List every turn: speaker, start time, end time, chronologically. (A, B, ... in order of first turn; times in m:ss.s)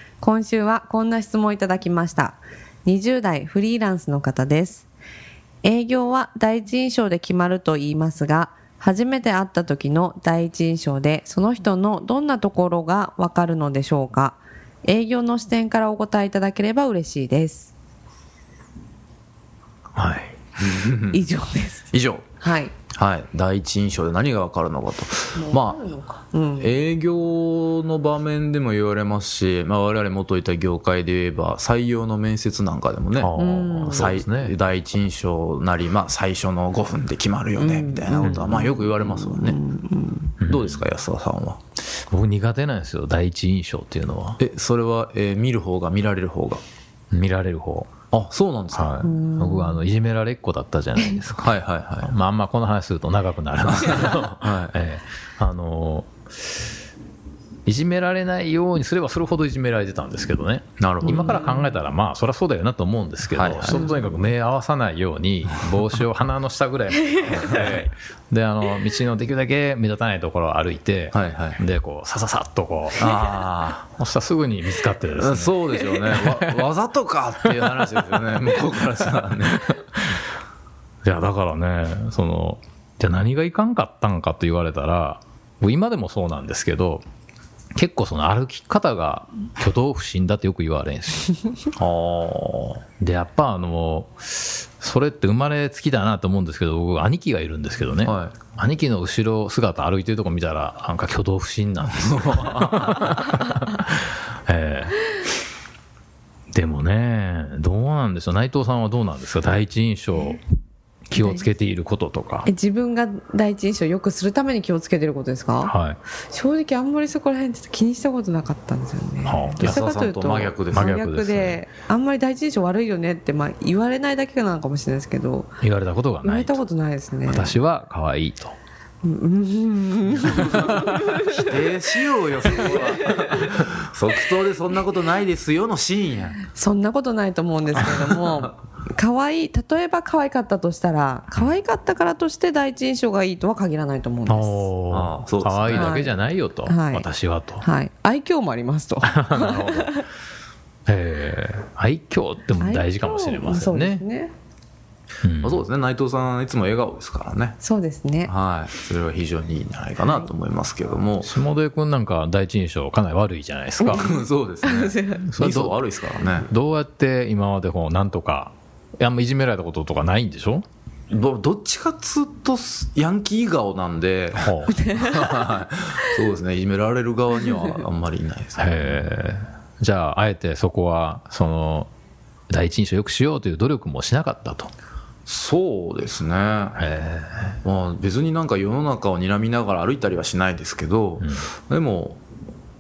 0:00.2-0:04.9 A
0:05.6-0:17.7 A
0:19.9-0:20.3 B
0:20.6-0:21.2 C
0:21.1-0:22.7 A
0:21.9-0:22.2 C
0:22.9-0:25.8 C
0:25.3-0:26.7 A
0:26.6-0:33.3 C
0:33.2-0:34.6 B
0:33.3-0:34.1 A
0:33.8-0:39.6 C
0:37.5-0:40.3 A
0:38.2-0:38.6 B
0:40.4-0:40.8 B
0:40.4-0:41.6 C
0:41.9-0:44.4 B
0:44.4-0:46.6 C
0:47.1-0:47.9 B
0:48.1-0:49.1 C
0:48.7-0:56.1 B
0:49.0-0:49.8 A
0:51.4-0:52.1 C
0:53.7-0:54.7 C
0:57.6-1:13.3 B
1:00.8-1:01.4 C
1:01.0-1:01.7 A
1:03.3-1:03.9 C
1:11.1-1:11.6 C
1:13.0-1:13.9 C
1:13.9-1:16.6 B
1:15.2-1:19.7 C
1:17.4-1:20.0 B
1:21.0-1:27.0 B
1:27.8-1:31.4 B
1:31.8-1:32.8 C
1:33.0-1:45.1 B
1:38.0-1:38.4 C
1:41.9-1:43.1 C
1:46.5-1:50.4 B
1:51.1-1:52.5 B
1:51.2-1:51.4 A
1:52.4-1:55.7 A
1:55.6-1:56.0 B
1:56.2-2:05.5 A
1:59.2-1:59.8 B
1:59.6-2:00.9 C
2:00.7-2:01.6 B
2:05.6-2:06.6 B
2:06.2-2:07.5 A
2:07.2-2:08.5 B
2:09.0-2:13.3 A
2:10.4-2:10.9 B
2:11.0-2:16.4 C
2:16.5-2:24.7 A
2:17.8-2:18.5 C
2:24.3-2:27.6 B
2:24.9-2:26.0 C
2:25.7-2:27.1 A
2:27.6-2:30.0 A
2:29.1-2:30.0 B
2:30.9-2:34.0 B
2:32.6-2:34.3 A
2:35.2-2:35.6 B
2:35.4-2:37.6 C
2:37.6-2:38.3 A
2:38.2-2:41.3 C
2:41.2-2:44.1 B
2:43.8-2:45.3 A
2:43.9-2:46.5 C
2:45.2-2:50.6 B
2:51.1-2:58.9 C
2:54.4-2:54.8 B
2:54.8-2:55.4 A
2:58.6-3:01.9 B
3:02.5-3:04.7 B
3:05.2-3:06.8 C
3:06.8-3:07.6 B
3:07.6-3:12.2 C
3:11.2-3:11.4 B